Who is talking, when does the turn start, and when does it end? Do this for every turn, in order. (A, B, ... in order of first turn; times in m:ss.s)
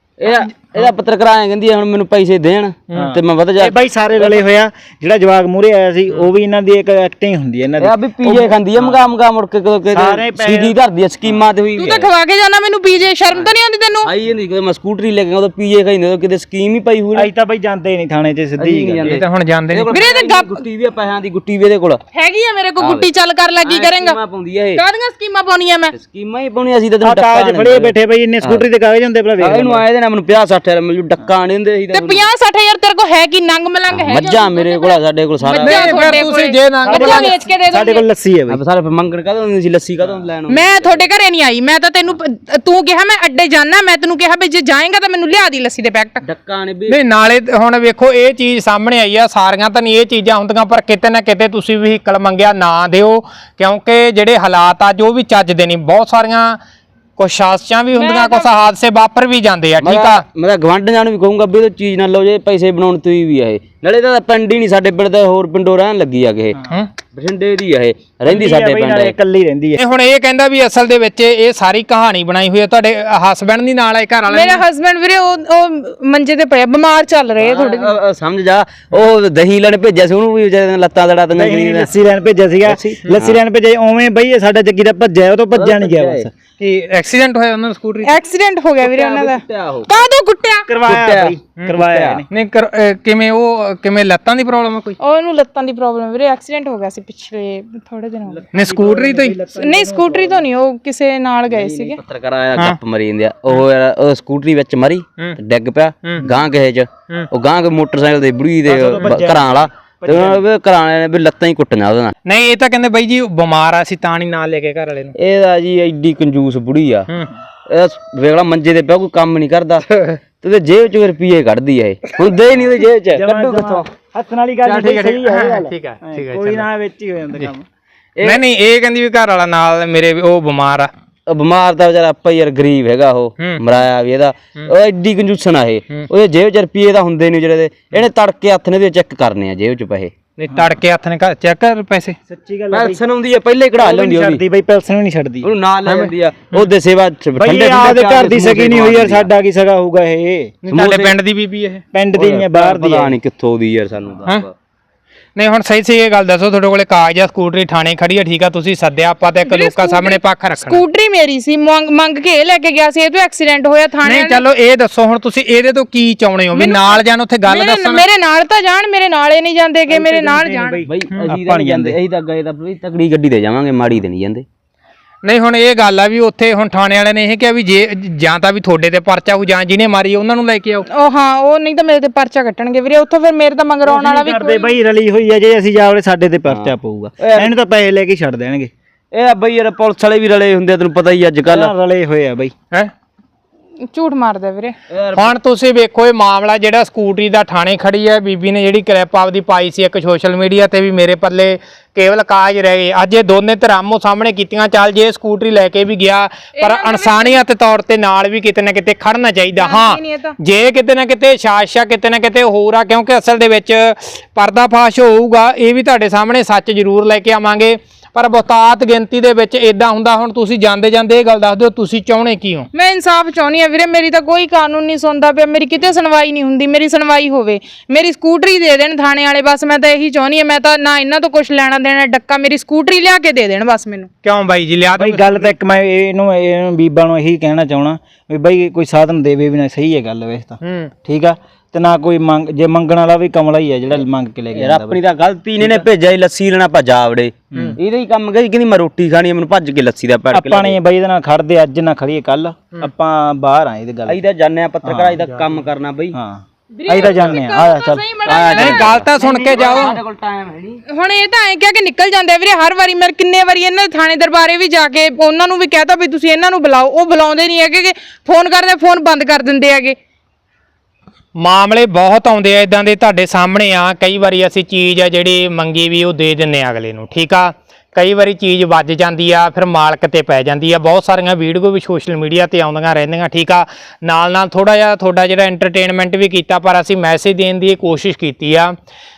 0:00.2-0:04.4 A
0:03.0-0:09.1 B
0:07.8-0:12.1 A
0:09.9-0:10.8 B
0:11.8-0:14.1 C
0:14.0-0:17.3 A
0:17.2-0:19.2 B
0:18.6-0:22.0 A
0:19.0-0:20.0 D
0:19.9-0:20.6 C
0:22.1-0:24.2 C
0:22.8-0:23.1 A
0:23.6-0:24.8 A
0:24.8-0:26.0 C
0:25.9-0:28.6 A
0:27.0-0:29.8 B
0:29.4-0:32.3 A
0:31.9-0:38.0 C
0:33.9-0:36.2 A
0:35.6-0:37.3 D
0:36.9-0:38.6 B
0:38.5-0:41.1 A
0:40.5-0:46.2 C
0:46.2-0:47.0 A
0:46.9-0:56.6 D
0:57.2-1:00.2 D
0:57.9-0:58.6 C
0:59.8-1:06.6 A
1:07.1-1:09.2 A
1:08.3-1:09.8 B
1:09.8-1:14.6 D
1:14.3-1:17.9 C
1:17.4-1:21.9 A
1:21.3-1:26.3 B
1:22.6-1:23.4 A
1:25.5-1:26.3 A
1:26.6-1:28.1 D
1:28.0-1:30.7 C
1:28.8-1:29.9 A
1:30.7-1:32.3 B
1:30.8-1:32.2 A
1:31.6-1:35.0 D
1:35.0-1:38.5 C
1:38.5-1:40.4 B
1:38.5-1:39.4 D
1:39.6-1:42.0 C
1:41.5-1:52.1 A
1:48.6-1:50.4 B
1:52.3-1:55.1 D
1:55.2-1:57.1 A
1:57.7-1:59.8 A
2:00.4-2:03.9 A
2:03.1-2:07.6 B
2:04.6-2:05.1 A
2:04.9-2:06.6 D
2:08.2-2:10.9 D
2:11.3-2:20.1 A
2:20.4-2:22.2 D
2:22.3-2:23.0 B
2:22.7-2:24.4 A
2:23.8-2:25.5 B
2:25.4-2:29.3 A
2:25.9-2:26.7 D
2:27.4-2:30.5 B
2:30.6-2:31.8 D
2:30.7-2:31.2 A
2:31.9-2:33.2 B
2:32.2-2:34.5 A
2:35.4-2:40.8 D
2:39.4-2:44.4 C
2:44.0-2:48.1 D
2:46.5-2:50.9 C
2:49.9-2:52.0 B
2:50.8-2:54.4 A
2:55.2-3:00.8 D
3:00.9-3:04.7 C
3:03.8-3:08.7 B
3:06.5-3:07.6 A
3:09.1-3:11.7 A
3:11.5-3:12.5 B
3:13.8-3:14.8 C
3:14.9-3:15.4 A
3:15.1-3:42.7 D
3:26.6-3:27.4 C
3:29.6-3:30.4 C
3:42.7-3:54.1 C
3:54.2-3:55.5 D
3:55.0-4:05.0 B
4:00.6-4:00.9 D
4:04.5-4:10.8 A
4:05.6-4:05.9 B
4:07.5-4:07.8 B
4:10.3-4:14.2 B
4:14.1-4:16.2 A
4:14.8-4:15.5 B
4:16.1-4:18.0 B
4:16.8-4:19.9 C
4:17.0-4:17.3 A
4:18.2-4:20.8 A
4:18.5-4:20.0 D
4:20.9-4:30.0 C
4:31.4-4:48.7 D